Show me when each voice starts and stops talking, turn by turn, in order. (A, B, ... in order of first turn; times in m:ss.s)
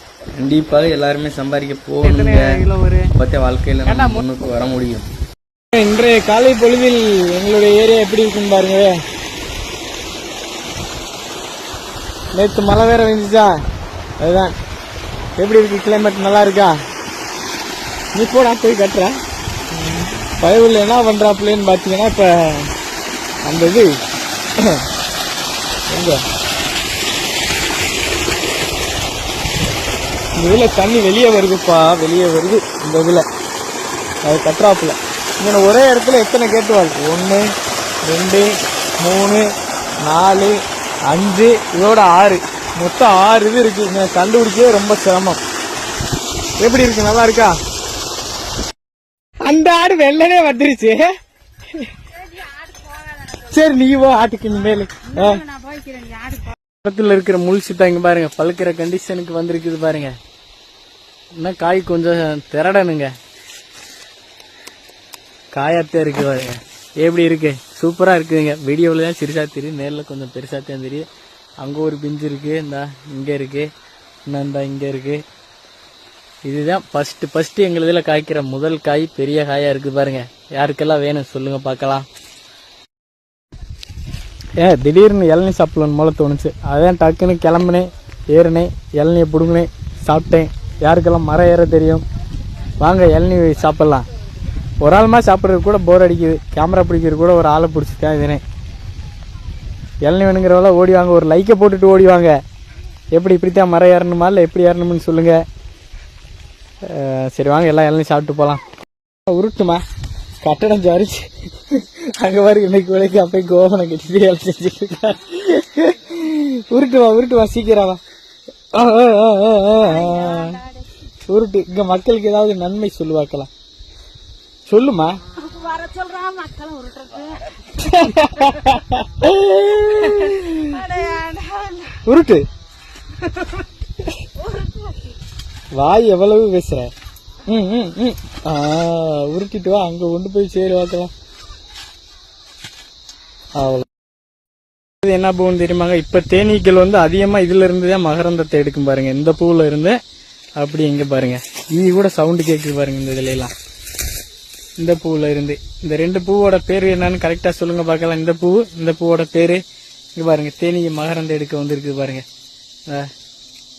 0:00.3-0:02.6 A
0:02.0-0:03.1 B
0:03.1-0:05.1 A
0:03.9-0:04.2 B
0:05.7-0:09.0 B
0:12.3-0:13.5 B
0:14.2-0:14.6 B
0:15.4-0:16.8 B
0:18.2-0:19.2 B
0:19.9-0:22.7 B
0:23.4-0:23.9 B
0:25.9-0:26.2 B
0:30.4-0:33.3 B
0:34.2-0:37.5 B
0:38.1-0:39.5 B
0:40.0-0:40.6 B
0:41.1-0:45.4 B
0:46.6-0:47.6 B
0:49.4-0:51.1 B
0:53.3-0:55.4 B
0:55.6-0:56.4 C
0:56.8-1:00.1 B
1:01.4-1:03.1 B
1:05.5-1:11.1 B
1:11.6-1:13.7 B
1:14.3-1:15.2 B
1:16.5-1:22.1 B
1:24.6-1:32.0 B
1:32.8-1:34.1 B
1:34.8-1:38.4 B
1:40.0-1:42.4 B
1:43.1-1:45.4 B
1:46.8-1:48.6 B
1:49.3-1:49.8 B
1:50.4-1:58.0 B
1:58.7-2:00.6 B
2:00.0-2:00.5 C
2:01.3-2:03.5 B
2:04.7-2:05.2 B
2:05.4-2:07.4 C
2:07.6-2:11.0 B
2:10.7-2:12.0 C
2:12.0-2:12.4 B
2:15.8-2:16.9 B
2:17.5-2:21.1 B
2:23.6-2:23.9 B
2:25.0-2:30.0 B
2:30.6-2:33.5 B
2:34.8-2:39.6 B
2:40.2-2:42.2 B